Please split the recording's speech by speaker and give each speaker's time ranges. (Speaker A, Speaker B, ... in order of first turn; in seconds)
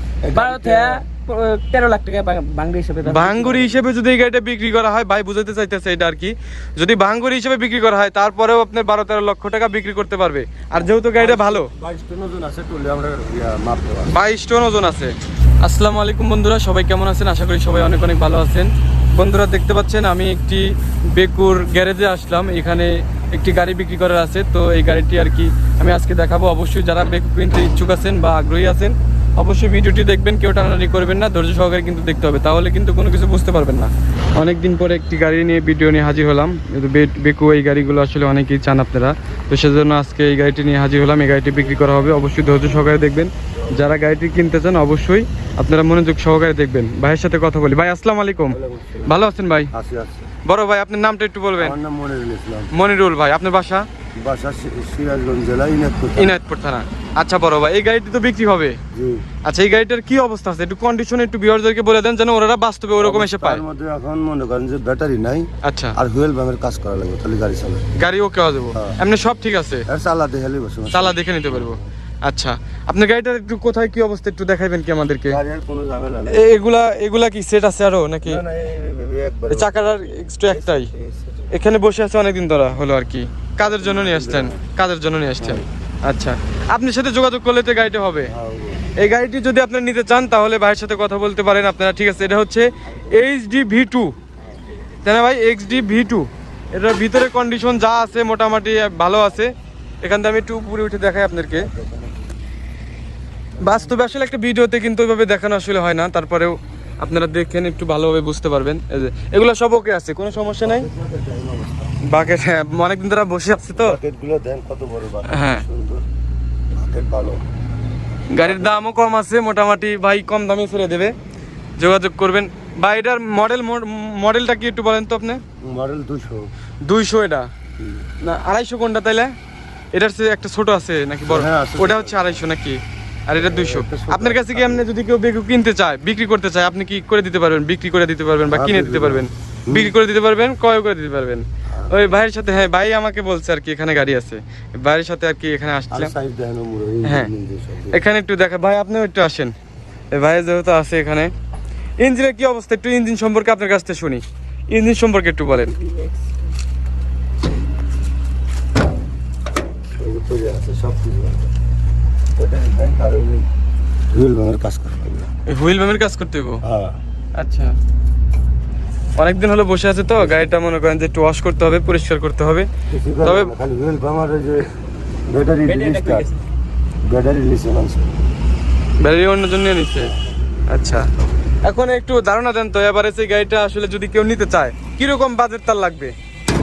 Speaker A: 0.2-1.0, 10.8-14.1, 48.5-49.2, 49.7-50.3, 51.6-52.7, 54.2-56.4, 58.9-59.2, 63.0-67.8, 69.9-71.8, 75.3-76.4, 78.2-79.9, 80.5-81.5, 83.6-84.7, 85.4-85.7, 88.3-88.9, 101.5-102.2, 103.6-104.0, 110.6-112.0, 113.8-116.0, 116.7-117.4, 118.4-118.7, 125.6-126.5, 127.8-128.1, 131.3-132.5, 133.4-134.9, 138.5-140.0, 141.7-142.0, 145.9-148.0, 159.9-161.5, 162.4-163.5, 164.1-165.3, 166.6-167.0, 172.9-174.7, 175.3-176.3, 177.0-178.2
Speaker B: 0.3-3.8, 155.5-156.4, 175.7-176.4
Speaker C: 3.1-11.7, 14.1-15.1, 15.6-49.7, 50.5-51.8, 52.7-53.9, 56.2-58.8, 59.5-63.6, 65.6-66.0, 68.0-69.8, 70.9-75.4, 76.3-78.4, 79.5-80.9, 81.5-88.3, 89.0-94.1, 95.0-101.7, 103.6-110.9, 112.0-114.0, 115.3-115.6, 118.3-121.1, 121.8-125.4, 126.9-127.5, 128.2-129.3, 129.9-146.1, 147.1-147.3, 147.9-149.5, 150.1-151.3, 152.0-155.7, 165.5-166.6, 167.4-167.8, 169.2-172.7, 173.2-173.5, 179.0-180.1, 180.7-181.1, 181.6-186.1